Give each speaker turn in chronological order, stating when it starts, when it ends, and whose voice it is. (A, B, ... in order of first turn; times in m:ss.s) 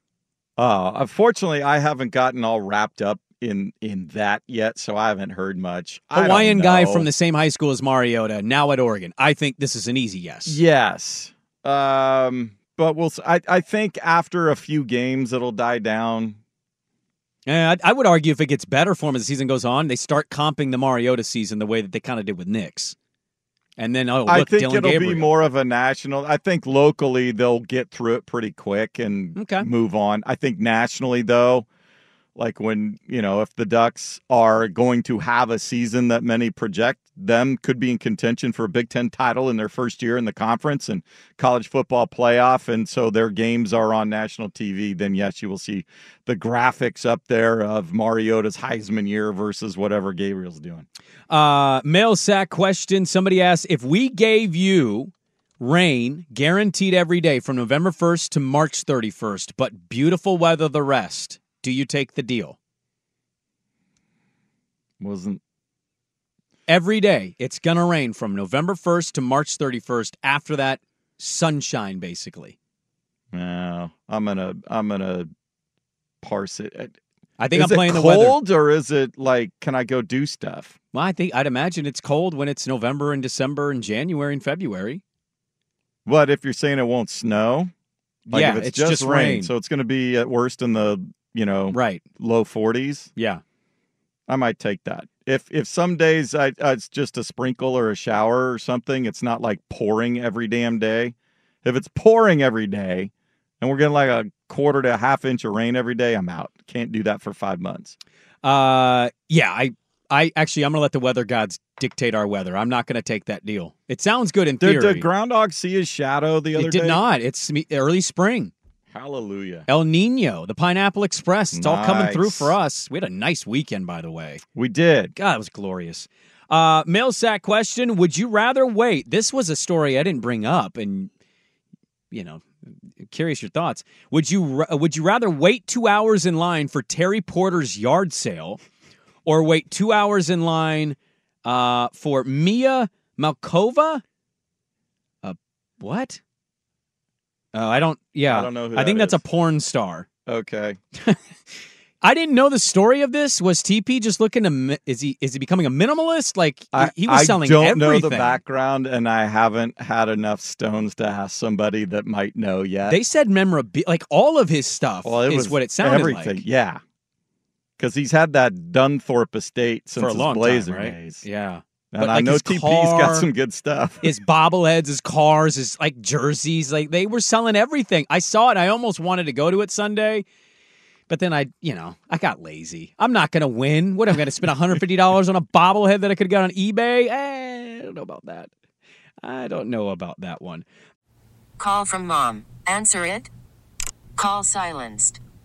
0:00.6-0:07.1 A
0:06.1-0:10.6 B
0:10.5-0:16.4 A
0:17.5-0:23.0 B
0:23.8-0:25.3 B
0:24.3-0:31.7 A
0:29.4-0:29.7 B
0:32.4-0:50.8 A
0:51.3-1:02.6 B
1:05.0-1:05.4 A
1:06.7-1:12.6 B
1:13.3-1:15.3 A
1:16.2-1:17.0 A
1:17.4-1:18.4 B
1:17.5-1:20.8 A
1:20.9-1:25.0 B
1:26.1-1:27.7 A
1:28.3-1:33.1 A
1:28.3-1:29.5 B
1:31.7-1:32.0 B
1:33.2-1:33.4 B
1:34.3-1:48.0 A
1:48.4-1:55.1 B
1:54.6-1:57.0 A
1:56.6-1:58.5 B
1:58.9-1:59.7 A
1:59.7-2:04.4 B
2:01.6-2:02.6 A
2:04.6-2:05.1 A
2:05.2-2:11.1 B
2:12.1-2:12.4 B
2:13.0-2:18.6 B
2:19.2-2:24.0 B
2:25.2-2:26.2 B
2:27.5-2:30.1 B
2:28.3-2:29.2 A
2:30.3-2:30.8 A
2:32.0-2:38.4 B
2:36.7-2:43.0 A
2:42.9-2:46.4 B
2:45.0-2:46.8 A
2:47.8-2:51.2 A
2:50.0-2:53.3 B
2:51.9-2:54.2 A
2:54.0-3:00.2 B
3:01.1-3:08.5 B
3:09.2-3:10.6 B
3:11.6-3:13.3 C
3:14.2-3:15.2 C